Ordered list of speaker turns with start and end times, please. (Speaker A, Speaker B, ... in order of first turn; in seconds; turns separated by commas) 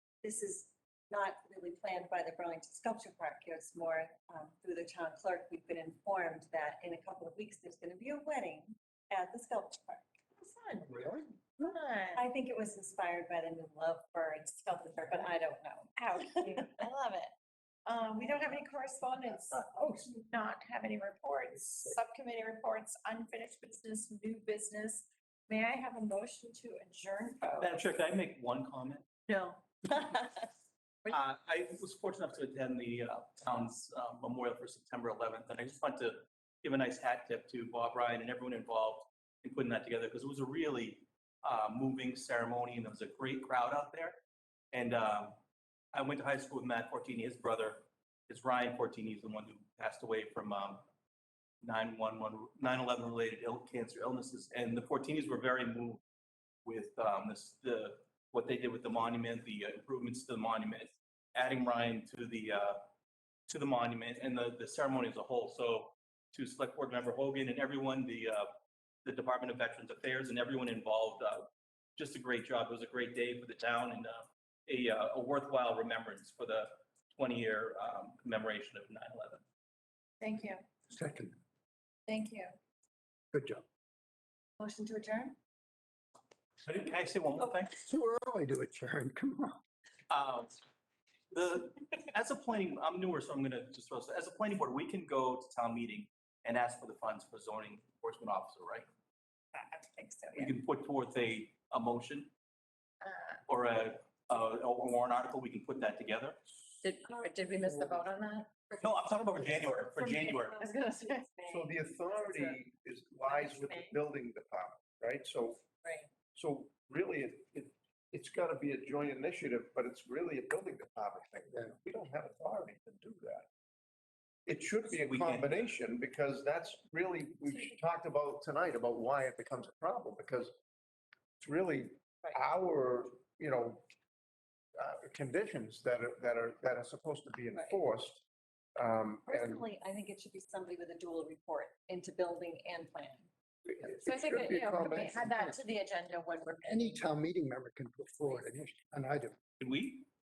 Speaker A: 0.2-10.1, Speaker B: 10.4-12.2, Speaker C: 10.9-11.2, Speaker A: 12.1-16.7, Speaker B: 16.0-17.3, Speaker B: 17.9-27.9, Speaker D: 27.6-29.1, Speaker B: 29.3-30.5, Speaker D: 31.1-44.2, Speaker D: 44.7-45.4, Speaker D: 45.9-50.9, Speaker D: 51.6-56.0, Speaker D: 56.6-62.9, Speaker D: 63.5-68.5, Speaker D: 69.0-79.4, Speaker B: 80.2-80.6, Speaker C: 80.9-81.4, Speaker B: 82.1-82.5, Speaker C: 83.3-83.6, Speaker A: 84.6-85.3, Speaker D: 86.6-87.8, Speaker C: 87.7-89.6, Speaker D: 90.1-90.6, Speaker D: 91.3-98.9, Speaker B: 99.5-100.5, Speaker D: 100.3-102.3, Speaker B: 103.0-103.4, Speaker D: 103.5-106.4, Speaker B: 106.8-112.6, Speaker D: 108.8-110.6, Speaker E: 111.5-115.6, Speaker B: 113.3-114.0, Speaker E: 116.3-123.5, Speaker E: 124.5-130.5, Speaker D: 125.0-125.7, Speaker E: 131.4-133.8, Speaker E: 134.8-138.2, Speaker A: 137.5-137.8, Speaker E: 138.8-139.7, Speaker A: 139.3-143.3, Speaker E: 143.7-145.4, Speaker B: 144.0-147.0, Speaker C: 146.6-149.3, Speaker D: 149.6-150.1